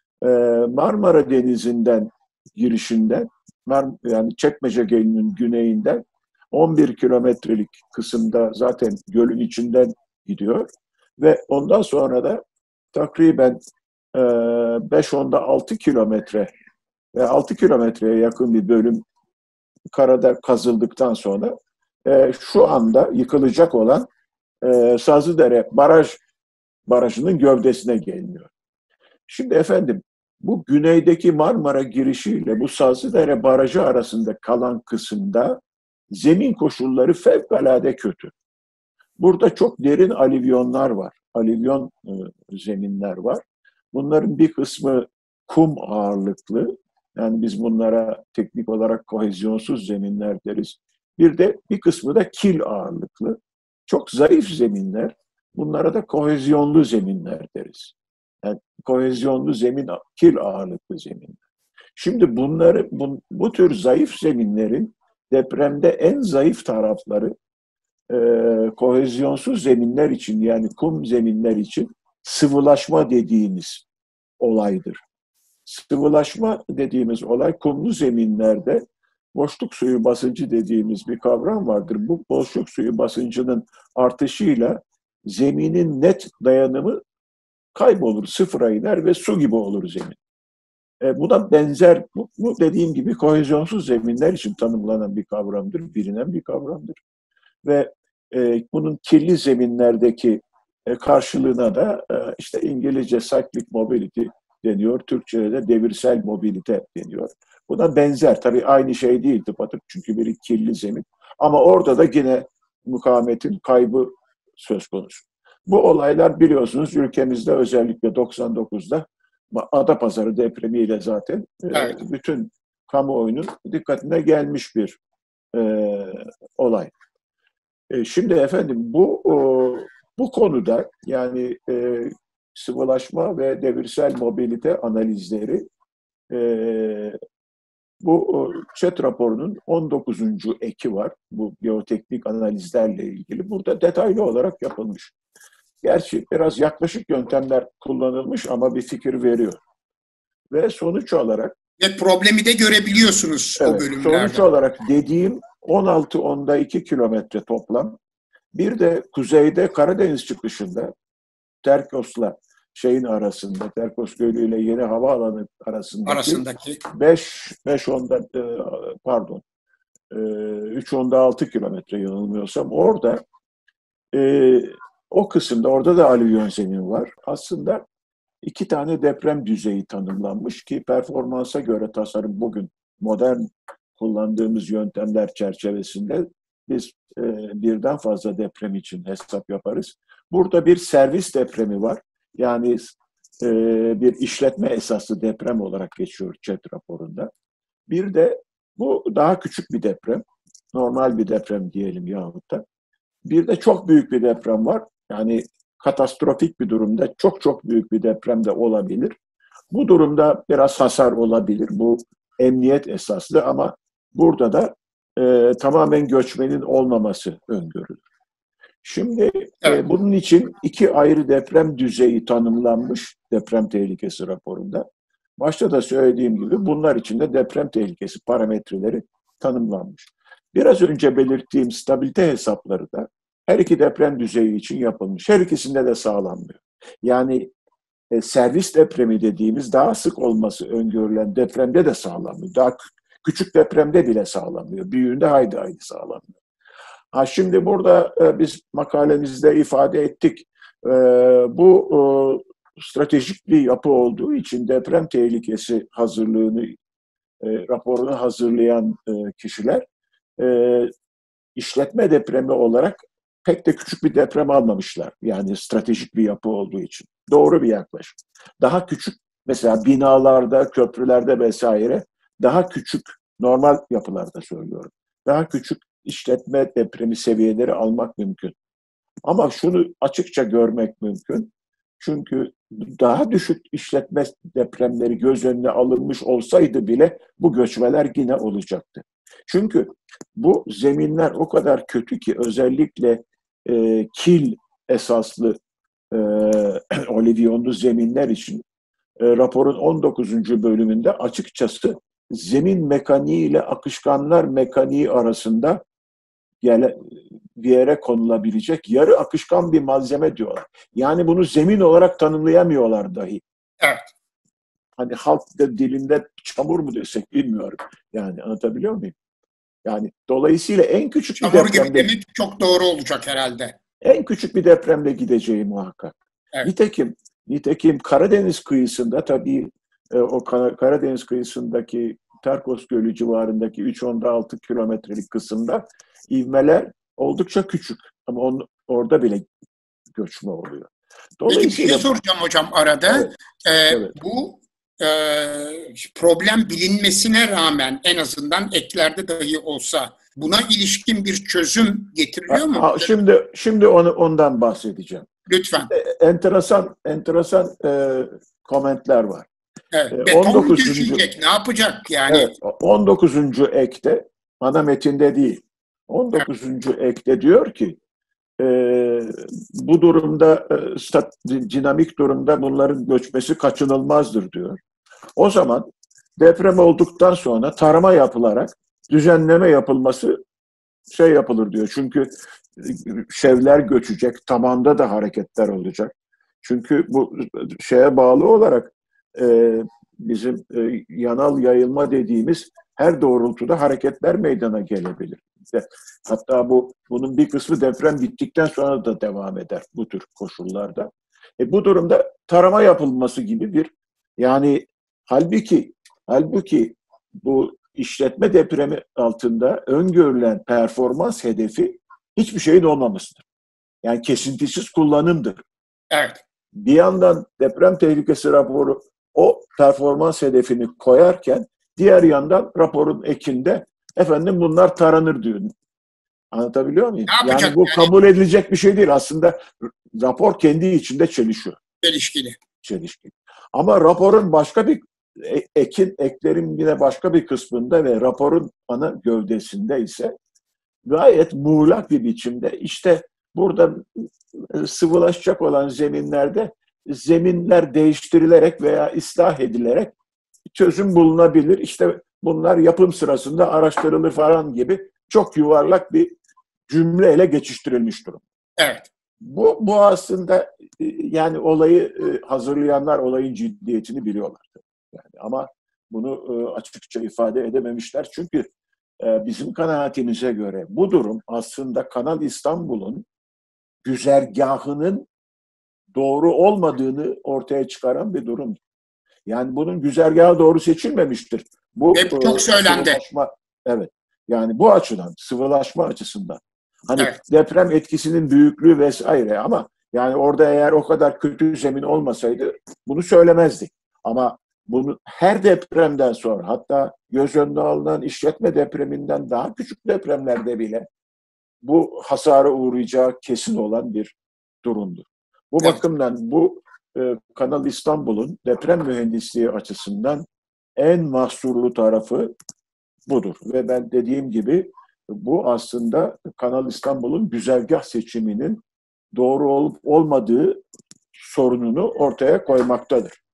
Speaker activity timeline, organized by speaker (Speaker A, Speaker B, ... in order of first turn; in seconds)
Speaker A: 0.2-12.4, 12.9-13.6, 14.1-16.5, 17.1-19.0, 19.9-21.5, 22.1-24.1, 24.6-26.2, 26.9-28.5, 29.3-35.6, 36.1-38.3, 39.2-61.4, 62.0-67.3, 68.1-73.9, 74.4-75.0, 75.7-78.8, 79.3-87.0, 87.8-90.2, 91.0-97.0, 97.6-125.0, 125.5-126.9, 127.9-135.7, 136.3-137.2, 138.0-145.1, 145.8-149.6, 150.5-151.6, 153.6-158.0, 158.5-160.9, 161.6-169.4, 170.1-173.2, 174.1-177.8, 178.4-197.3, 197.9-202.6, 203.2-209.1, 209.7-218.0, 218.8-224.9, 225.4-237.5, 238.1-246.3, 247.1-256.8, 257.4-259.8, 260.4-260.9, 261.6-278.6, 279.2-295.6, 296.1-298.6, 299.2-305.8, 306.6-313.4, 315.0-319.1, 319.9-322.1, 324.0-339.4, 340.1-342.1, 343.9-344.1, 352.5-359.5, 360.1-361.3, 362.3-368.0, 368.6-374.8, 375.4-375.9, 376.4-380.4, 381.1-413.4, 414.0-415.6, 416.8-425.7, 426.5-431.8, 432.8-440.3, 441.1-450.1, 450.7-456.3, 456.9-458.4, 459.4-468.7, 469.2-473.3, 474.0-475.3, 476.1-478.8, 479.5-501.1, 501.8-510.4, 511.0-512.5, 513.3-518.8, 519.4-520.8, 521.4-523.4
Speaker B: 151.8-154.4, 166.1-166.8, 313.8-314.1, 321.4-323.8, 341.5-353.1, 355.5-355.9, 359.9-362.5, 416.1-416.4, 427.3-428.1, 432.0-432.6, 458.8-459.1, 482.1-483.2